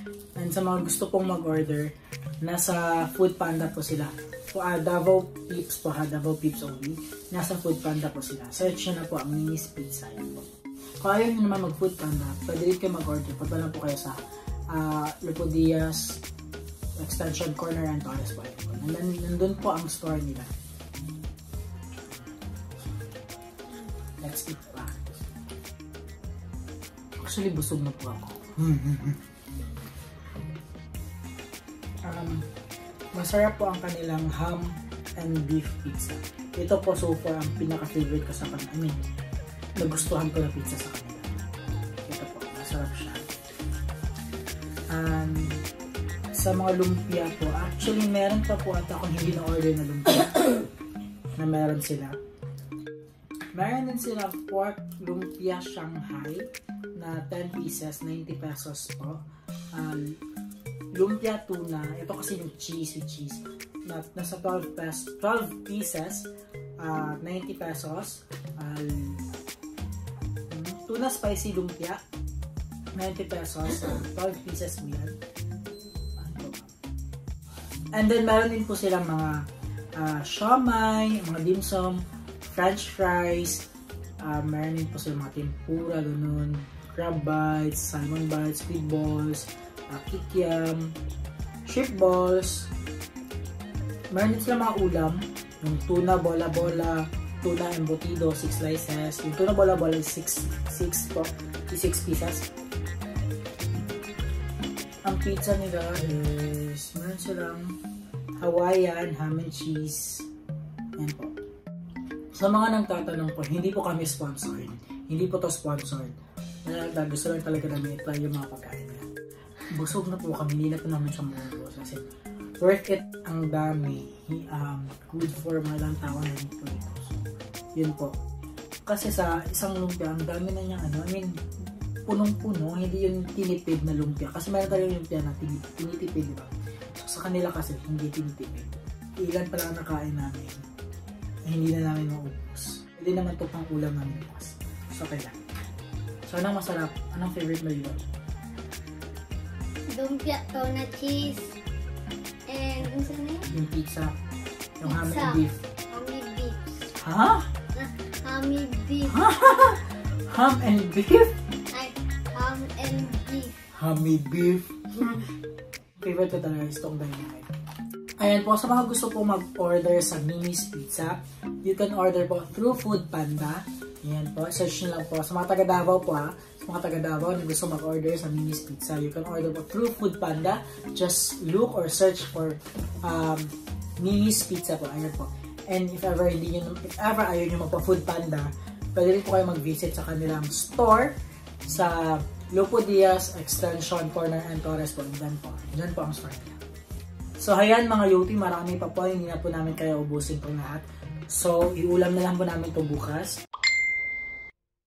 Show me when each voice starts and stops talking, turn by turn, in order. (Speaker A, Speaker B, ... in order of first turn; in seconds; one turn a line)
Speaker A: 0.4-10.5
Speaker A: 11.0-14.2
Speaker A: 14.7-16.2
Speaker A: 17.0-20.5
Speaker A: 24.2-25.3
Speaker A: 27.2-29.2
Speaker A: 32.1-32.5
Speaker A: 33.1-39.0
Speaker A: 39.8-41.3
Speaker A: 42.1-43.2
Speaker A: 44.9-45.6
Speaker A: 46.3-50.6
Speaker A: 51.4-52.1
Speaker A: 53.5-59.2
Speaker A: 59.7-60.2
Speaker A: 60.9-69.3
Speaker A: 70.5-72.0
Speaker A: 73.0-75.2
Speaker A: 76.2-76.7
Speaker A: 77.9-79.5
Speaker A: 80.0-83.7
Speaker A: 84.2-91.0
Speaker A: 91.7-92.7
Speaker A: 94.1-102.5
Speaker A: 105.0-107.8
Speaker A: 108.4-110.3
Speaker A: 111.0-111.3
Speaker A: 112.3-116.1
Speaker A: 116.6-119.1
Speaker A: 119.7-122.0
Speaker A: 122.6-127.2
Speaker A: 127.8-128.1
Speaker A: 128.9-131.3
Speaker A: 132.1-140.6
Speaker A: 141.5-145.4
Speaker A: 146.3-148.0
Speaker B: 149.9-151.6
Speaker B: 152.5-153.5
Speaker A: 153.5-154.1
Speaker A: 154.8-155.6
Speaker B: 154.8-156.9
Speaker A: 157.0-157.5
Speaker B: 157.8-159.2
Speaker A: 159.1-161.3
Speaker B: 161.7-163.7
Speaker A: 163.7-165.3
Speaker A: 166.0-167.5
Speaker A: 168.2-196.6
Speaker A: 197.4-203.4